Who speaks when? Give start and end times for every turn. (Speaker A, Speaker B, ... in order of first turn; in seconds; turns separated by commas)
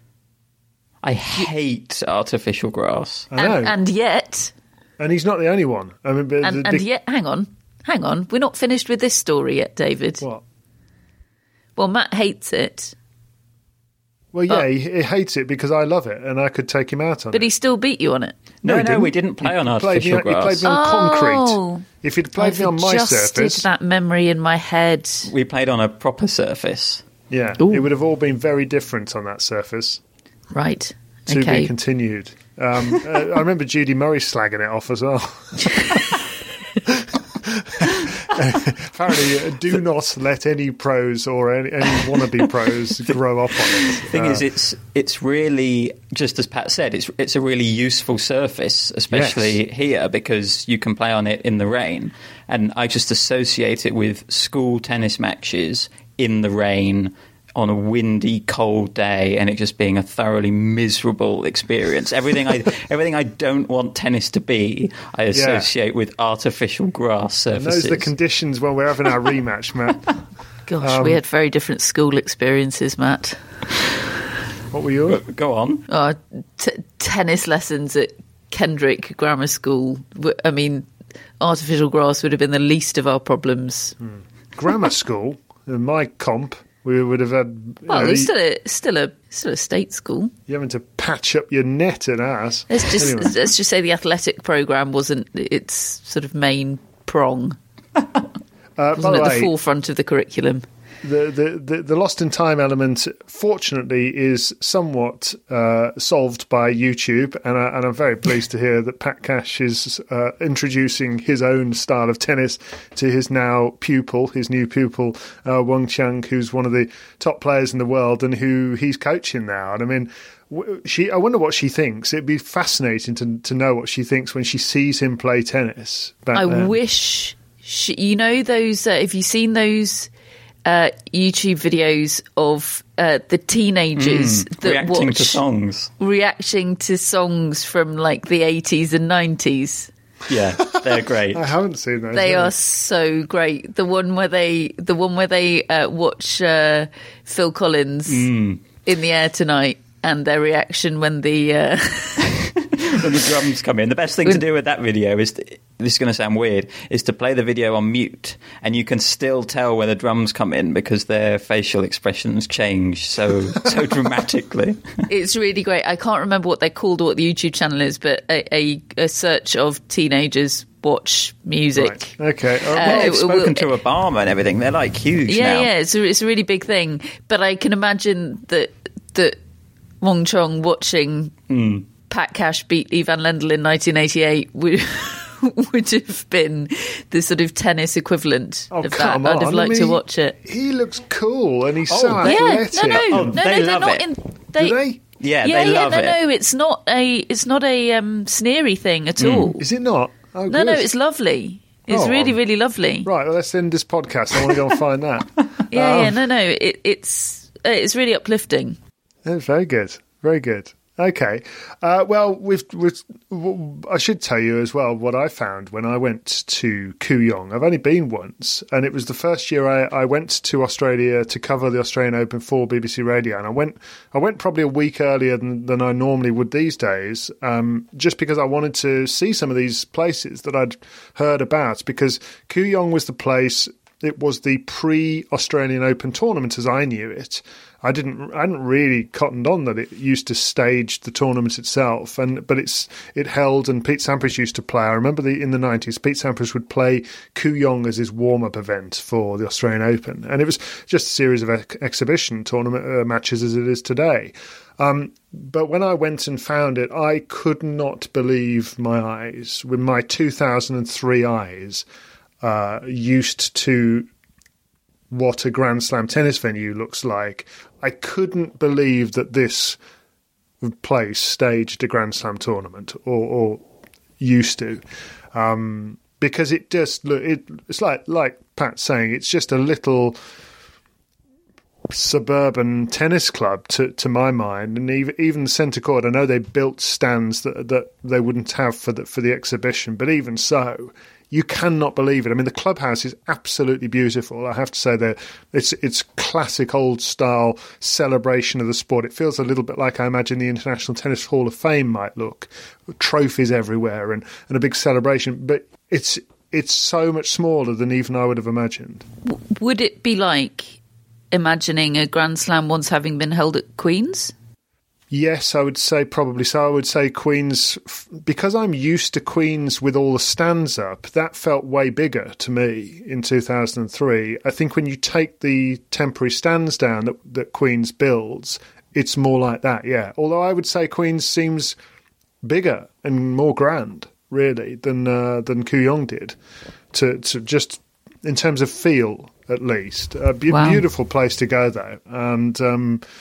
Speaker A: 1.0-3.3, Speaker B: 3.3-3.7, Speaker C: 3.4-4.5, Speaker B: 5.0-6.8, Speaker C: 6.4-10.2, Speaker C: 11.8-12.9, Speaker B: 14.3-17.5, Speaker C: 17.3-18.4, Speaker A: 18.6-20.6, Speaker B: 18.6-23.7, Speaker C: 20.6-25.3, Speaker A: 25.2-27.0, Speaker B: 27.3-30.0, Speaker C: 27.6-27.8, Speaker C: 30.5-31.7, Speaker B: 31.3-35.8, Speaker B: 36.9-44.4, Speaker A: 43.7-68.1, Speaker B: 49.1-49.6, Speaker B: 65.3-65.7, Speaker B: 67.5-70.1, Speaker C: 70.7-73.4, Speaker B: 70.8-71.2, Speaker B: 74.7-75.2, Speaker A: 75.1-75.8, Speaker C: 75.9-80.9, Speaker C: 81.4-83.9, Speaker B: 84.0-88.3, Speaker C: 87.9-90.3, Speaker B: 90.5-93.3, Speaker C: 92.7-97.6, Speaker B: 98.8-99.5, Speaker C: 99.0-100.7, Speaker B: 101.0-126.7, Speaker C: 126.3-130.1, Speaker C: 130.6-135.4, Speaker A: 133.9-135.9, Speaker C: 136.0-139.9, Speaker A: 140.3-141.4, Speaker B: 141.3-142.5, Speaker C: 142.1-148.3, Speaker A: 148.1-148.6, Speaker C: 148.8-152.3, Speaker A: 152.9-164.9, Speaker C: 165.1-173.7, Speaker B: 171.8-173.2, Speaker A: 172.8-175.7, Speaker C: 175.3-179.4, Speaker C: 180.0-181.3, Speaker A: 181.5-181.9, Speaker C: 182.1-190.4, Speaker B: 188.7-193.4, Speaker A: 191.9-194.1, Speaker C: 192.2-194.8, Speaker B: 194.6-195.0, Speaker A: 195.2-196.2, Speaker C: 195.4-199.6, Speaker A: 199.2-199.6, Speaker B: 199.6-200.9, Speaker C: 200.5-203.1, Speaker B: 201.9-202.4, Speaker B: 203.0-206.2, Speaker C: 205.7-208.8, Speaker B: 209.2-261.8, Speaker B: 262.4-264.1, Speaker B: 265.1-269.8, Speaker B: 270.6-273.6, Speaker B: 274.2-280.2, Speaker B: 281.9-309.0, Speaker C: 309.2-310.8, Speaker C: 311.3-314.3, Speaker B: 315.1-331.8, Speaker B: 332.4-336.4, Speaker B: 336.9-343.0, Speaker C: 340.5-340.9